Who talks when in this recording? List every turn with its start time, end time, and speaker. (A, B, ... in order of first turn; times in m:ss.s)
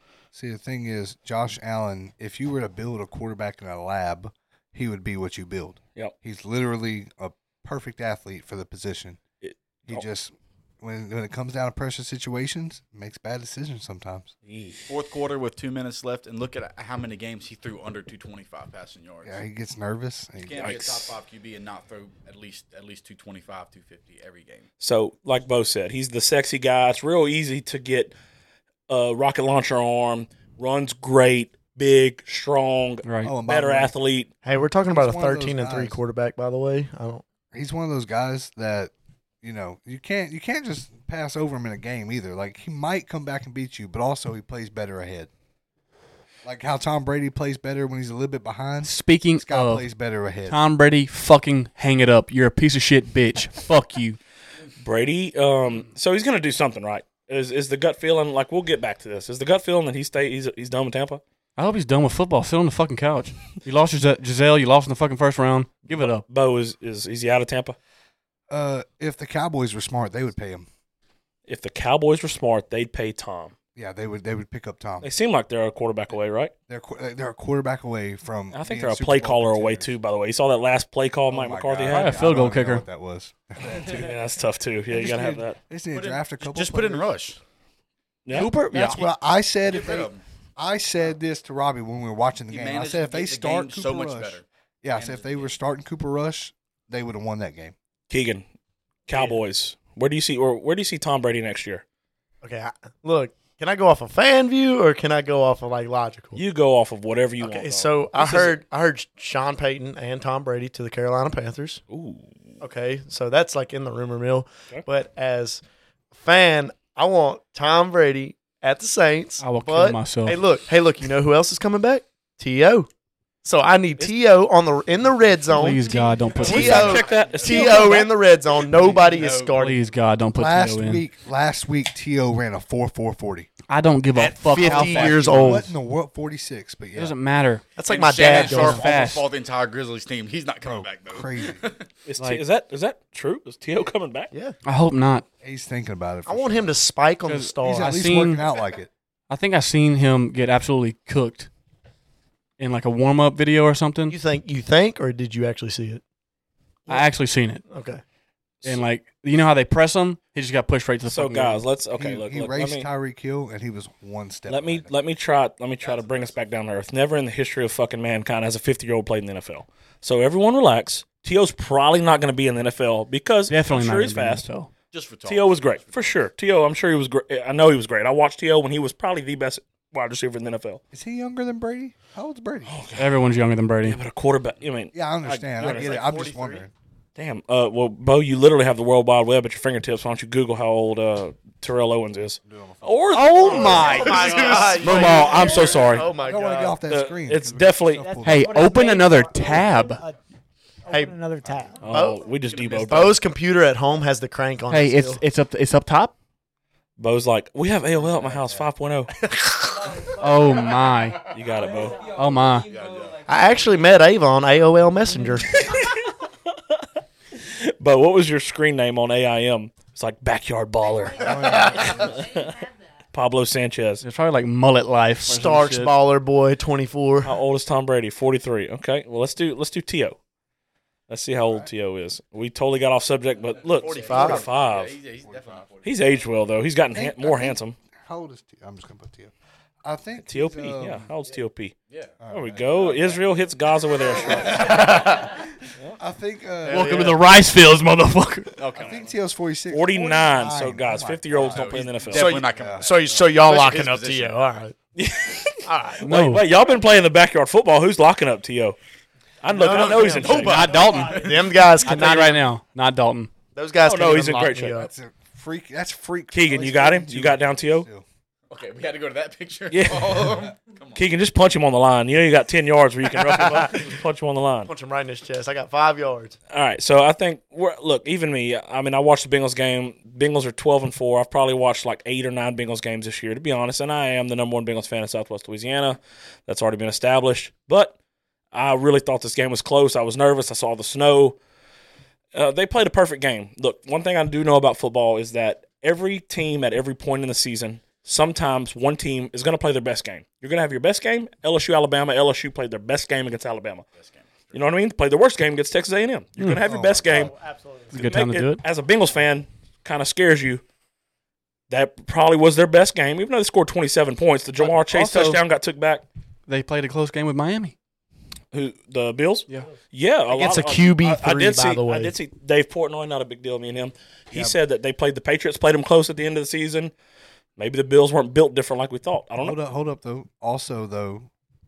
0:00.3-0:09.2 A
0:09.4-0:10.0 B
0:09.9-0:14.3 A
0:14.5-0:14.9 B
0:14.9-0:19.4 C
0:19.2-0:20.8 A
0:20.4-0:24.7 C
0:20.5-0:21.1 B
0:24.8-0:28.2 B
0:28.9-0:34.3 B
0:33.0-0:33.3 D
0:33.2-0:33.9 A
0:34.4-0:37.2 E
0:34.9-0:36.0 A
0:37.5-0:45.3 A
0:46.4-0:50.6 A
0:48.8-0:49.8 D
0:50.5-0:54.2 D
0:54.8-1:01.2 B
1:01.6-1:06.2 D
1:06.0-1:07.8 B
1:08.5-1:10.7 A
1:11.5-1:13.5 B
1:13.8-1:15.1 A
1:15.0-1:16.5 B
1:16.7-1:19.9 A
1:18.5-1:22.2 B
1:21.3-1:24.2 A
1:21.9-1:22.8 D
1:23.9-1:25.6 B
1:24.9-1:27.1 A
1:25.9-1:27.4 C
1:28.3-1:28.6 B
1:28.3-1:29.0 D
1:28.7-1:37.8 A
1:29.6-1:30.2 C
1:32.5-1:35.5 C
1:38.1-1:38.4 B
1:39.1-1:41.8 B
1:42.4-1:46.4 E
1:46.4-1:48.6 B
1:47.4-1:51.8 E
1:51.9-1:52.3 B
1:52.6-1:55.6 E
1:56.1-2:02.9 E
1:59.4-2:00.4 D
2:03.4-2:05.8 E
2:05.5-2:07.0 D
2:05.9-2:08.1 B
2:06.4-2:07.9 C
2:06.4-2:09.8 E
2:08.7-2:09.6 C
2:09.6-2:11.0 D
2:10.4-2:13.5 A
2:13.7-2:15.7 D
2:14.1-2:15.6 E
2:14.7-2:17.2 A
2:17.0-2:17.7 D
2:17.8-2:19.1 E
2:17.9-2:21.9 C
2:18.3-2:19.2 D
2:20.6-2:21.7 A
2:22.1-2:24.3 B
2:22.2-2:22.4 D
2:24.6-2:25.2 D
2:25.4-2:26.7 A
2:26.3-2:28.0 E
2:27.3-2:28.4 D
2:27.7-2:28.9 A
2:29.3-2:31.5 D
2:32.6-2:34.2 D
2:34.1-2:36.0 E
2:36.9-2:37.6 D
2:37.7-2:38.0 E
2:38.6-2:41.6 D
2:41.1-2:42.9 B
2:42.0-2:44.9 A
2:44.5-2:54.5 B
2:45.8-2:46.4 C
2:53.5-2:54.7 D
2:54.9-2:56.2 C
2:55.3-3:00.8 B
3:00.9-3:02.8 A
3:02.7-3:03.2 B
3:03.0-3:04.0 D
3:03.8-3:05.9 B
3:04.9-3:06.7 A
3:05.6-3:06.6 E
3:05.7-3:06.3 C
3:07.2-3:16.1 B
3:12.5-3:13.9 A
3:13.1-3:15.8 D
3:13.8-3:16.8 E
3:15.8-3:16.1 C
3:16.2-3:18.4 A
3:16.9-3:18.2 B
3:18.0-3:20.2 F
3:18.2-3:20.0 D
3:20.9-3:21.8 F
3:21.8-3:23.2 B
3:21.9-3:22.3 E
3:22.3-3:23.1 C
3:22.8-3:25.2 E
3:24.7-3:26.1 D
3:27.0-3:29.1 B
3:28.0-3:28.7 C
3:30.1-3:31.3 D
3:31.3-3:32.1 B
3:32.0-3:32.7 D
3:32.6-3:33.3 C
3:33.3-3:35.6 E
3:35.5-3:36.2 B
3:37.4-3:44.0 B
3:41.2-3:42.2 A
3:44.0-3:45.9 D
3:45.2-3:47.4 E
3:47.2-3:50.2 B
3:51.1-3:55.0 B
3:51.4-3:51.7 A
3:53.4-3:56.3 C
3:54.0-3:54.5 E
3:55.3-3:55.6 A
3:55.8-3:57.8 B
3:56.9-3:59.3 A
3:59.8-4:01.1 A
4:00.3-4:01.8 B
4:01.9-4:02.2 C
4:02.2-4:03.0 A
4:02.3-4:04.9 B
4:02.7-4:03.2 C
4:04.2-4:05.3 A
4:06.0-4:07.1 A
4:06.7-4:08.6 D
4:06.7-4:07.2 E
4:08.6-4:09.1 C
4:08.7-4:11.9 A
4:09.7-4:12.4 B
4:11.3-4:14.4 C
4:12.1-4:14.8 E
4:12.5-4:12.9 A
4:15.0-4:18.8 B
4:15.6-4:16.1 E
4:16.0-4:16.4 D
4:19.4-4:20.7 B
4:19.5-4:22.5 E
4:19.6-4:21.4 C
4:20.3-4:21.3 D
4:21.8-4:23.3 D
4:23.6-4:24.9 E
4:23.8-4:24.8 B
4:24.8-4:28.0 A
4:26.3-4:27.9 B
4:28.5-4:31.0 C
4:29.7-4:34.7 B
4:33.2-4:33.8 E
4:34.6-4:36.4 E
4:36.5-4:47.9 B
4:48.5-4:51.4 B
4:52.3-5:03.8 B
5:03.9-5:04.7 C
5:04.5-5:07.3 B
5:06.6-5:07.3 A
5:07.1-5:08.0 F
5:07.9-5:08.6 D
5:08.0-5:10.6 B
5:11.7-5:16.0 B
5:14.6-5:15.4 D
5:16.5-5:17.8 D
5:18.5-5:26.9 B
5:20.3-5:22.1 E
5:27.6-5:29.6 B
5:29.4-5:31.3 A